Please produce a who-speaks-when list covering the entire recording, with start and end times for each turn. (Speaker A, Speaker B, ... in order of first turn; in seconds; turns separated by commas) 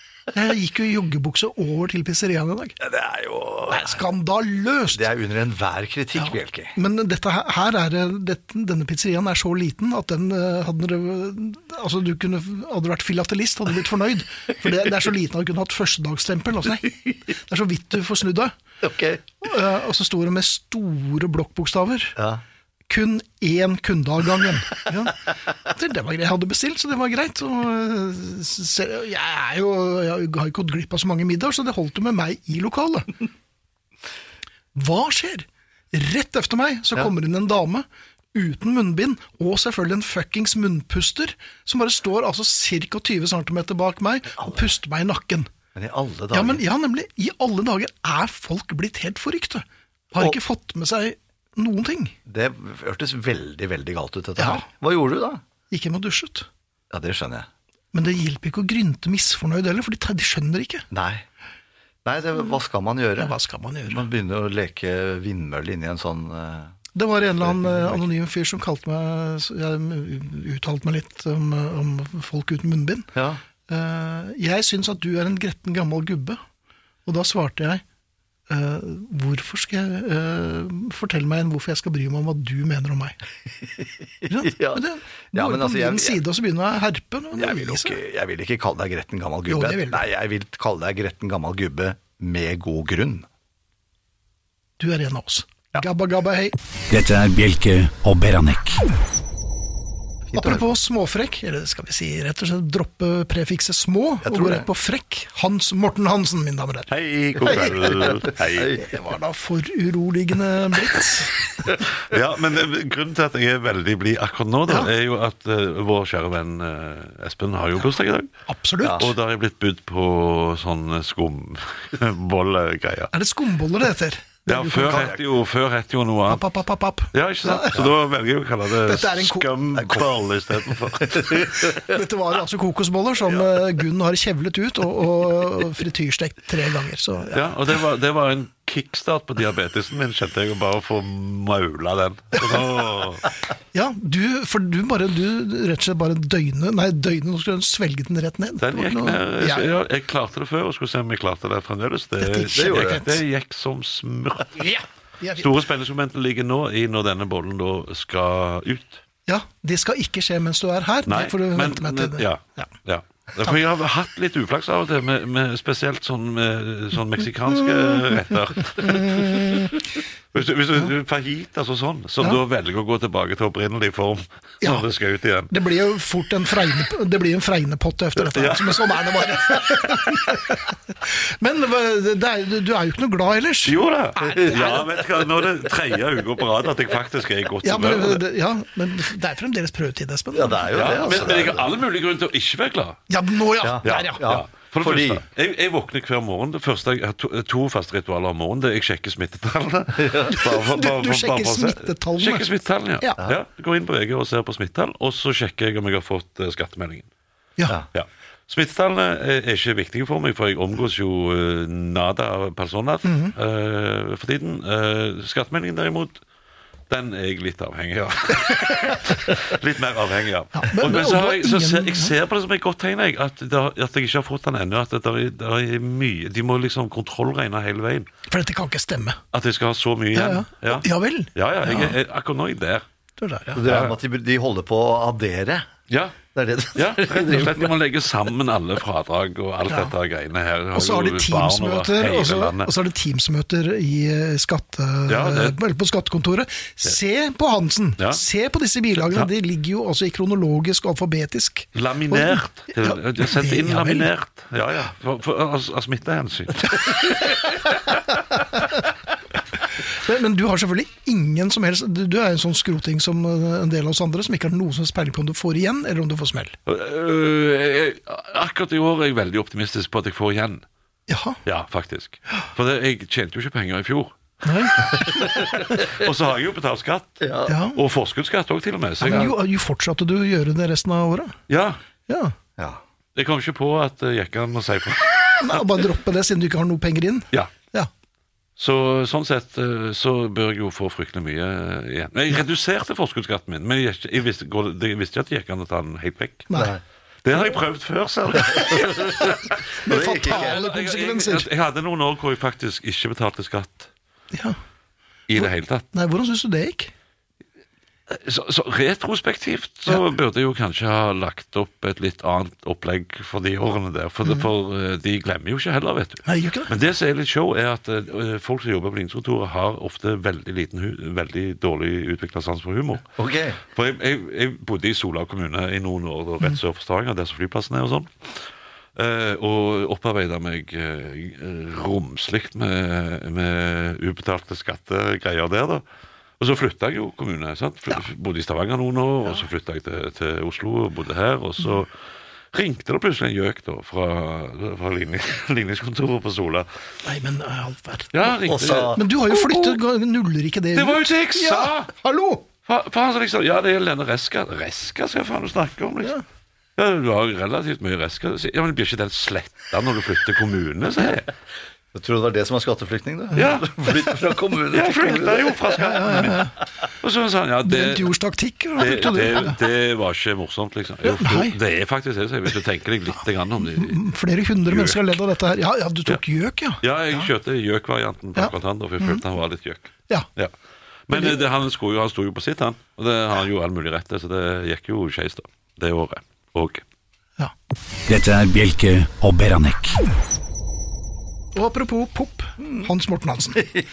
Speaker A: 0.3-2.8, Speaker B: 2.8-4.0, Speaker A: 3.7-5.0, Speaker B: 4.9-6.8, Speaker A: 6.2-18.6, Speaker B: 18.8-19.2, Speaker A: 19.4-22.2, Speaker B: 22.2-22.4, Speaker A: 22.9-33.2, Speaker A: 34.8-45.5, Speaker B: 45.8-46.6, Speaker A: 46.3-52.2, Speaker B: 52.3-55.4, Speaker A: 54.4-54.7, Speaker A: 55.7-56.5, Speaker B: 56.9-57.5, Speaker A: 57.9-60.9, Speaker B: 60.9-61.3, Speaker B: 62.0-63.4, Speaker A: 63.2-64.0, Speaker B: 63.9-66.8, Speaker A: 67.0-73.1, Speaker B: 67.4-68.1, Speaker B: 73.2-73.4, Speaker A: 73.7-76.4, Speaker A: 77.1-77.8, Speaker A: 78.5-83.2, Speaker B: 84.3-86.2, Speaker A: 84.3-88.0, Speaker B: 87.4-93.3, Speaker A: 89.5-90.0, Speaker A: 94.8-96.5, Speaker C: 96.8-98.9, Speaker A: 100.3-106.9, Speaker B: 100.3-100.6, Speaker B: 104.2-104.7, Speaker D: 106.9-108.8, Speaker A: 107.4-108.3, Speaker B: 107.5-109.2, Speaker A: 108.8-111.4, Speaker D: 112.0-118.3, Speaker A: 118.5-119.1, Speaker B: 118.8-119.1, Speaker D: 118.9-123.1, Speaker A: 123.1-125.1, Speaker D: 124.5-126.5, Speaker B: 124.9-125.2, Speaker A: 126.3-127.8, Speaker D: 127.1-131.7, Speaker A: 128.8-129.5, Speaker B: 129.8-130.0, Speaker B: 131.0-131.5, Speaker A: 131.7-137.4, Speaker D: 137.3-143.3, Speaker A: 142.3-142.6, Speaker A: 143.7-149.7, Speaker D: 148.6-154.6, Speaker A: 152.2-153.2, Speaker B: 152.5-153.0, Speaker A: 154.6-155.5, Speaker D: 155.4-159.0, Speaker A: 159.3-162.7, Speaker D: 161.1-169.8, Speaker A: 167.5-168.2, Speaker A: 168.8-169.8, Speaker D: 170.3-175.5, Speaker A: 175.5-184.8, Speaker D: 178.2-179.7, Speaker D: 183.7-188.2, Speaker B: 184.4-185.0, Speaker A: 187.6-190.8, Speaker B: 190.3-191.7, Speaker D: 190.7-193.0, Speaker A: 193.1-194.2, Speaker B: 193.6-195.2, Speaker D: 193.8-207.1, Speaker B: 200.0-200.3, Speaker A: 200.2-202.5, Speaker D: 207.9-216.2, Speaker A: 213.1-213.3, Speaker D: 216.9-228.1, Speaker A: 220.6-222.1, Speaker A: 228.3-229.2, Speaker D: 229.3-232.8, Speaker A: 230.1-232.0, Speaker A: 233.2-233.6, Speaker B: 233.5-235.7, Speaker D: 233.6-233.9, Speaker D: 235.9-236.2, Speaker B: 236.3-237.7, Speaker D: 236.8-242.7, Speaker A: 240.8-254.1, Speaker D: 245.1-245.6, Speaker D: 251.8-258.1, Speaker A: 258.4-258.8, Speaker A: 259.8-266.6, Speaker D: 266.7-270.6, Speaker A: 271.1-271.4, Speaker D: 271.5-274.1, Speaker A: 274.4-275.4, Speaker D: 274.8-279.3, Speaker B: 277.2-277.6, Speaker A: 277.5-277.8, Speaker A: 279.0-281.4, Speaker D: 281.5-281.8, Speaker A: 282.1-282.3, Speaker B: 282.6-282.8, Speaker D: 283.2-285.6, Speaker A: 285.4-287.9, Speaker D: 288.6-296.5, Speaker A: 296.5-296.8, Speaker B: 296.6-296.8, Speaker D: 297.2-303.9, Speaker B: 298.6-299.2, Speaker A: 299.8-301.5, Speaker B: 299.9-300.6, Speaker A: 304.3-304.6, Speaker D: 305.3-305.9, Speaker A: 305.4-306.9, Speaker D: 308.1-323.1, Speaker A: 316.3-316.7, Speaker B: 323.2-323.6, Speaker D: 323.7-328.4, Speaker D: 329.0-335.8, Speaker D: 336.4-341.9, Speaker D: 342.5-346.7, Speaker A: 347.0-348.3, Speaker D: 348.1-349.8, Speaker B: 348.4-349.0, Speaker A: 348.9-352.5, Speaker D: 350.8-351.9, Speaker D: 352.7-356.1, Speaker D: 356.8-361.3, Speaker B: 361.9-365.8, Speaker D: 363.4-364.1, Speaker D: 364.7-366.5, Speaker A: 365.8-366.6, Speaker D: 367.0-368.1, Speaker A: 367.6-369.6, Speaker D: 368.8-374.0, Speaker A: 371.0-371.6, Speaker A: 373.7-377.3, Speaker D: 374.7-375.0, Speaker D: 376.8-380.5, Speaker A: 378.4-379.2, Speaker D: 381.1-386.8, Speaker A: 381.1-381.4, Speaker C: 388.1-390.0, Speaker A: 391.6-393.7